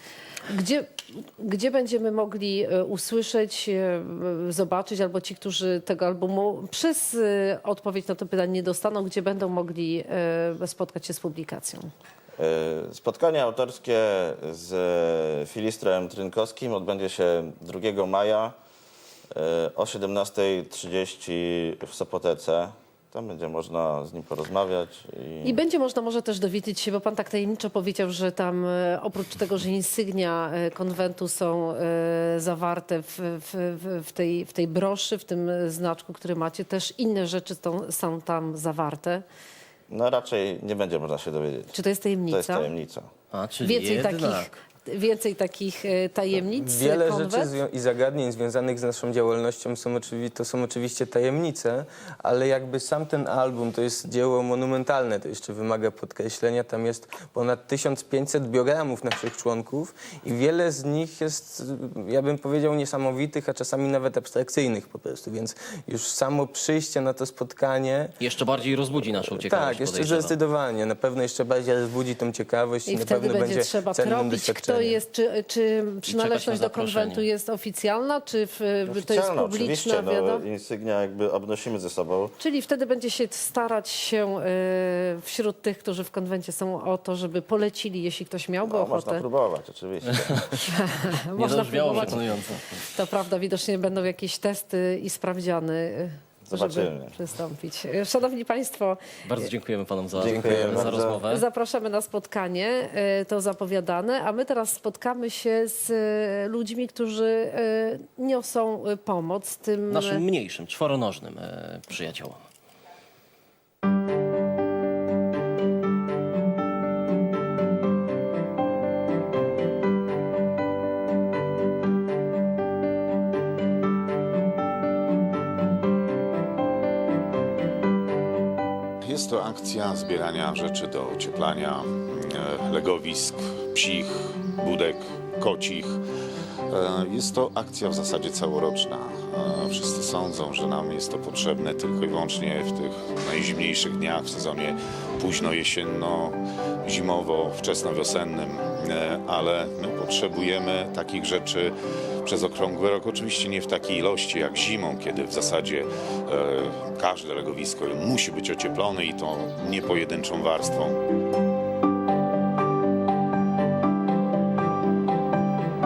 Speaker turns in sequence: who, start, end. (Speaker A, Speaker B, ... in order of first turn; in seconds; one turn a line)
Speaker A: 0.5-11.9
Speaker B: 12.4-18.6
Speaker B: 19.3-25.6
Speaker A: 25.4-39.2
Speaker B: 39.9-41.7
Speaker A: 41.7-42.7
Speaker B: 42.3-43.1
Speaker C: 43.3-44.5
Speaker A: 43.6-47.5
Speaker D: 46.4-68.2
Speaker C: 68.2-70.4
Speaker D: 69.3-75.0
Speaker A: 72.9-80.4
Speaker C: 76.1-77.2
Speaker B: 78.9-82.3
Speaker A: 82.4-89.2
Speaker B: 88.7-90.6
Speaker A: 90.7-92.3
Speaker C: 91.3-92.7
Speaker A: 92.9-99.0
Speaker B: 96.5-97.1
Speaker C: 99.2-101.4
Speaker B: 100.2-101.2
Speaker D: 100.4-100.8
Speaker A: 101.3-110.2
Speaker C: 109.9-112.4
Speaker E: 129.0-136.0
Speaker E: 136.7-151.7
Speaker E: 152.2-161.0